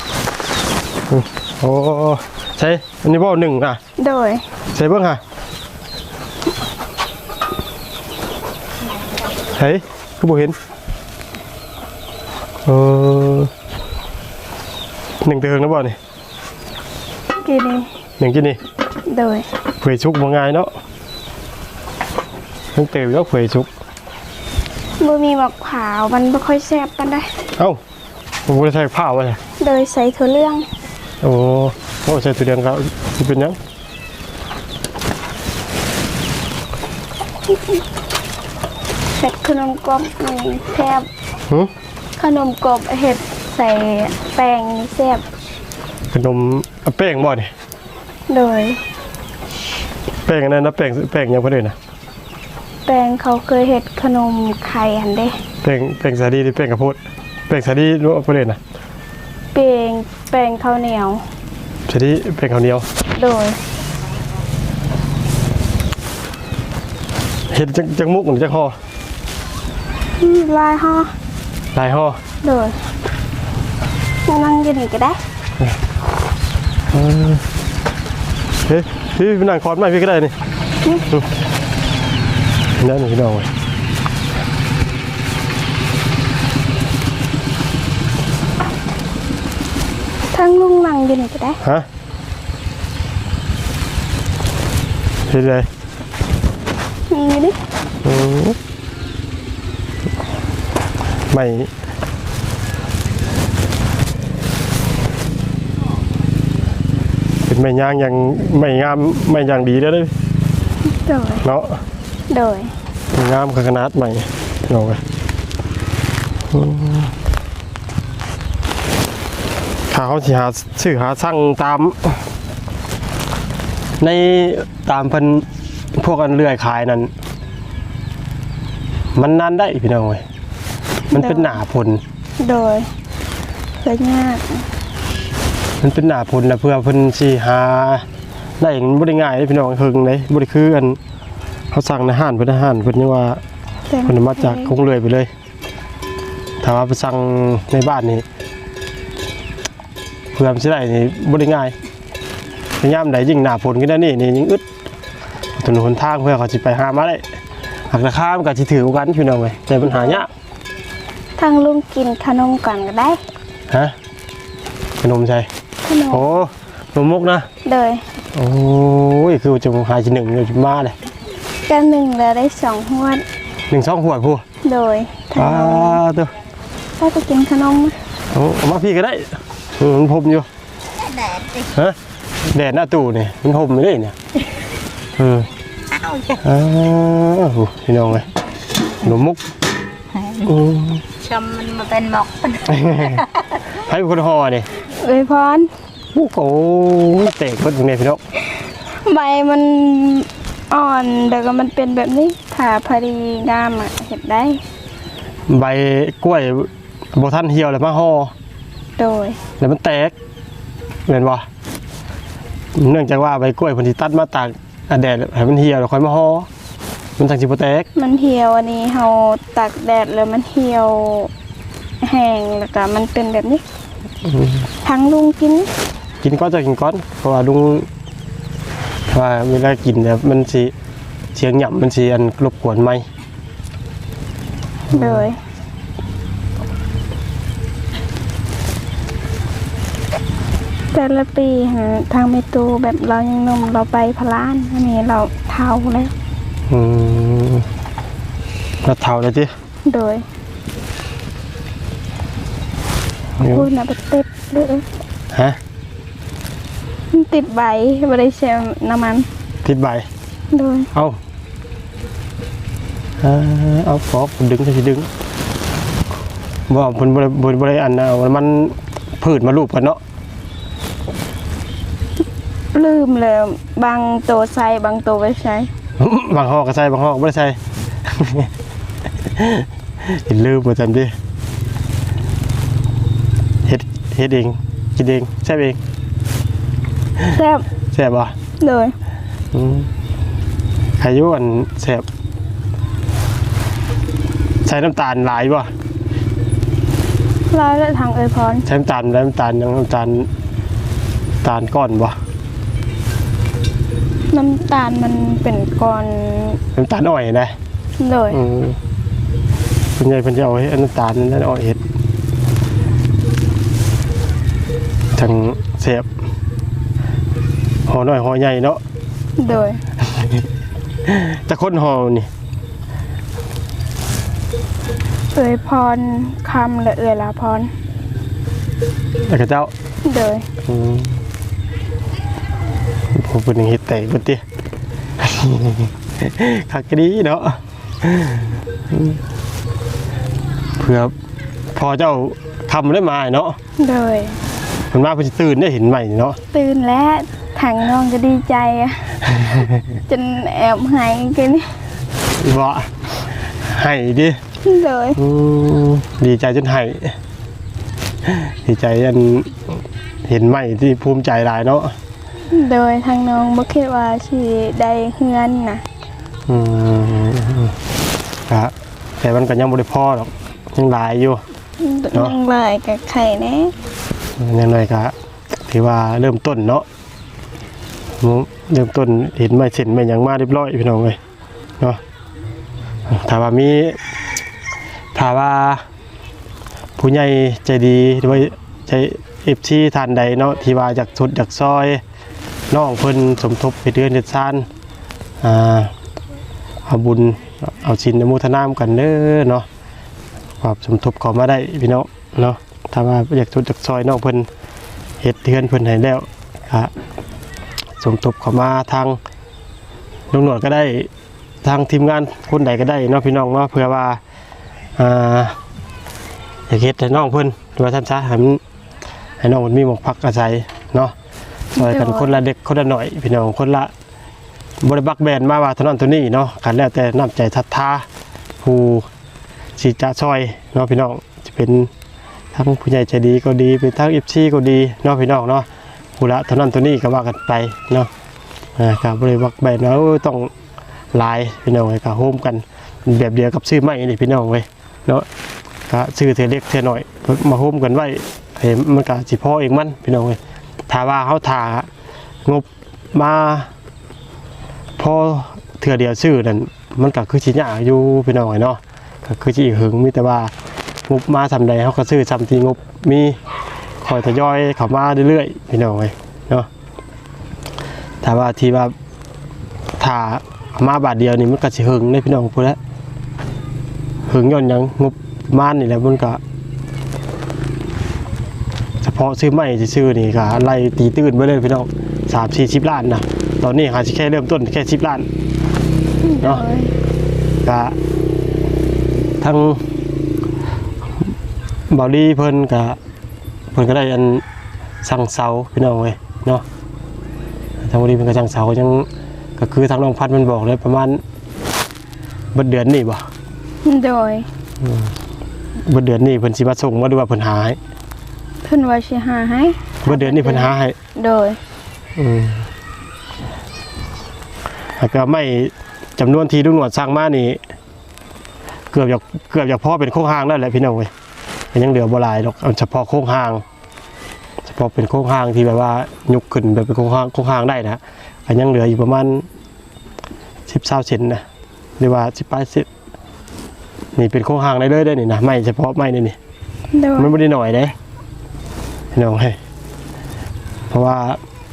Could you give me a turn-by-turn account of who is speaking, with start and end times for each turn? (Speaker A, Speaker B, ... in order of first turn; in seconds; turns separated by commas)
Speaker A: 1.1-3.8, Speaker B: 4.0-4.5, Speaker A: 4.7-5.2, Speaker A: 9.6-10.6, Speaker A: 12.7-13.5, Speaker A: 15.2-16.0, Speaker B: 17.4-17.9, Speaker A: 18.2-18.6, Speaker B: 19.1-19.5, Speaker A: 19.8-20.7, Speaker A: 22.8-23.7, Speaker B: 25.0-27.3, Speaker A: 28.5-29.4, Speaker B: 29.6-30.6, Speaker A: 31.2-33.6, Speaker B: 39.2-41.1, Speaker B: 42.2-45.2, Speaker A: 46.1-47.5, Speaker B: 48.3-48.8, Speaker A: 50.3-51.8, Speaker B: 52.9-55.4, Speaker A: 55.6-58.6, Speaker B: 59.5-61.2, Speaker A: 61.9-62.9, Speaker B: 63.2-63.6, Speaker A: 67.5-68.8, Speaker B: 70.2-71.1, Speaker A: 71.7-72.2, Speaker B: 72.4-72.8, Speaker B: 74.3-75.2, Speaker A: 76.9-77.5, Speaker A: 78.7-80.3, Speaker A: 82.8-83.5, Speaker B: 90.3-91.6, Speaker A: 95.3-95.7, Speaker B: 97.1-97.6, Speaker A: 98.0-98.6, Speaker A: 101.3-101.7, Speaker A: 107.5-110.1, Speaker B: 110.9-111.5, Speaker A: 111.4-111.8, Speaker B: 112.3-112.7, Speaker A: 113.1-115.0, Speaker A: 116.5-117.1, Speaker A: 119.9-122.2, Speaker A: 124.0-125.5, Speaker A: 126.0-127.1, Speaker A: 129.2-130.2, Speaker B: 131.1-131.6, Speaker A: 131.1-132.0, Speaker B: 132.4-132.9, Speaker B: 133.8-134.7, Speaker A: 135.8-138.1, Speaker A: 138.6-141.0, Speaker A: 141.7-143.4, Speaker B: 143.9-144.7, Speaker A: 144.1-145.3, Speaker A: 146.6-148.2, Speaker A: 150.3-151.8, Speaker A: 152.8-154.7, Speaker A: 155.6-157.2, Speaker A: 157.9-160.3, Speaker B: 160.0-160.2, Speaker B: 161.4-163.2, Speaker A: 163.7-163.9, Speaker A: 165.0-165.5, Speaker B: 165.8-166.2, Speaker A: 166.1-167.5, Speaker B: 167.6-168.0, Speaker A: 168.3-171.0, Speaker B: 171.7-173.2, Speaker A: 173.7-174.4, Speaker B: 174.6-176.0, Speaker A: 175.3-176.3, Speaker B: 177.0-178.0, Speaker A: 178.3-180.5, Speaker C: 181.3-181.6, Speaker A: 181.7-184.2, Speaker A: 185.2-185.5, Speaker C: 186.0-186.4, Speaker A: 186.4-188.3, Speaker A: 189.0-189.5, Speaker C: 190.2-190.5, Speaker A: 190.4-191.0, Speaker C: 191.2-193.3, Speaker A: 192.7-194.7, Speaker B: 195.0-195.7, Speaker A: 196.1-198.2, Speaker B: 199.0-204.6, Speaker A: 205.5-208.3, Speaker B: 209.0-209.4, Speaker A: 209.6-210.2, Speaker A: 211.1-211.5, Speaker A: 212.8-216.5, Speaker A: 217.2-217.9, Speaker B: 217.9-221.3, Speaker B: 222.0-223.6, Speaker A: 224.2-224.7, Speaker B: 224.8-225.7, Speaker A: 226.2-227.9, Speaker A: 229.1-230.7, Speaker A: 231.3-233.1, Speaker A: 234.9-235.3, Speaker B: 234.9-235.4, Speaker B: 240.9-246.1, Speaker A: 246.7-247.7, Speaker A: 248.8-249.5, Speaker B: 249.9-250.2, Speaker A: 253.4-253.7, Speaker B: 253.4-254.8, Speaker A: 255.3-255.6, Speaker B: 257.1-259.3, Speaker A: 259.6-260.1, Speaker B: 260.5-260.9, Speaker A: 260.9-261.2, Speaker A: 263.2-265.1, Speaker A: 266.7-270.0, Speaker B: 272.7-275.7, Speaker A: 276.0-278.5, Speaker A: 279.2-281.1, Speaker A: 283.6-285.8, Speaker B: 287.3-287.6, Speaker A: 287.9-288.4, Speaker B: 288.6-288.9, Speaker A: 289.5-289.9, Speaker A: 291.0-292.1, Speaker A: 294.6-295.7, Speaker B: 297.5-298.7, Speaker A: 298.7-300.3, Speaker A: 301.4-302.2, Speaker B: 304.3-306.6, Speaker A: 306.8-307.6, Speaker B: 308.0-308.4, Speaker A: 308.3-308.8, Speaker A: 310.0-311.8, Speaker A: 315.1-316.1, Speaker A: 317.9-318.8, Speaker B: 319.4-319.8, Speaker A: 320.0-320.5, Speaker A: 321.1-322.3, Speaker B: 325.4-327.7, Speaker A: 329.3-329.7, Speaker B: 330.1-330.5, Speaker A: 330.6-331.2, Speaker A: 333.1-334.4, Speaker A: 335.2-339.2, Speaker A: 340.8-341.1, Speaker A: 341.7-343.6, Speaker B: 343.8-344.4, Speaker A: 344.9-346.4, Speaker B: 346.5-349.4, Speaker A: 349.3-349.9, Speaker B: 350.1-351.8, Speaker A: 352.4-352.9, Speaker A: 353.6-354.4, Speaker B: 354.6-355.2, Speaker A: 355.2-357.2, Speaker A: 358.2-361.9, Speaker B: 362.5-365.8, Speaker A: 366.5-367.8, Speaker A: 368.5-371.4, Speaker B: 371.8-373.7, Speaker A: 374.4-375.1, Speaker A: 375.6-376.9, Speaker A: 378.2-381.2, Speaker A: 383.1-384.0, Speaker A: 385.1-385.9, Speaker A: 387.0-392.0, Speaker A: 392.7-394.7, Speaker A: 395.4-395.9, Speaker A: 396.9-399.7, Speaker A: 400.6-404.5, Speaker A: 405.2-406.9, Speaker A: 408.0-409.2, Speaker A: 410.3-411.1, Speaker A: 411.6-414.2, Speaker A: 415.0-415.6, Speaker A: 416.7-418.6, Speaker A: 419.4-421.1, Speaker B: 421.7-422.4, Speaker A: 421.8-423.9, Speaker A: 424.8-428.1, Speaker A: 428.6-429.1, Speaker A: 429.8-431.9, Speaker A: 432.5-438.1, Speaker A: 438.8-440.5, Speaker A: 441.1-445.3, Speaker A: 445.9-451.9, Speaker A: 452.4-453.7, Speaker A: 455.0-460.5, Speaker A: 461.1-463.4, Speaker A: 464.0-466.7, Speaker A: 468.2-468.9, Speaker A: 470.0-472.8, Speaker A: 474.3-476.4, Speaker A: 479.0-485.3, Speaker B: 486.2-486.9, Speaker A: 487.6-488.0, Speaker A: 489.4-489.8, Speaker A: 491.9-493.0, Speaker A: 493.7-494.4, Speaker A: 495.0-496.6, Speaker A: 497.8-501.2, Speaker A: 502.5-503.2, Speaker B: 503.9-504.5, Speaker A: 504.8-505.1, Speaker A: 505.9-507.8, Speaker B: 508.6-511.6, Speaker A: 510.1-511.0, Speaker A: 512.2-512.7, Speaker A: 515.0-517.6, Speaker A: 518.9-521.1, Speaker A: 521.7-523.6, Speaker A: 524.6-529.5, Speaker A: 530.7-531.4, Speaker A: 532.0-532.9, Speaker A: 534.2-536.4, Speaker B: 536.9-537.3, Speaker A: 537.2-538.0, Speaker A: 539.1-539.6, Speaker A: 540.9-541.4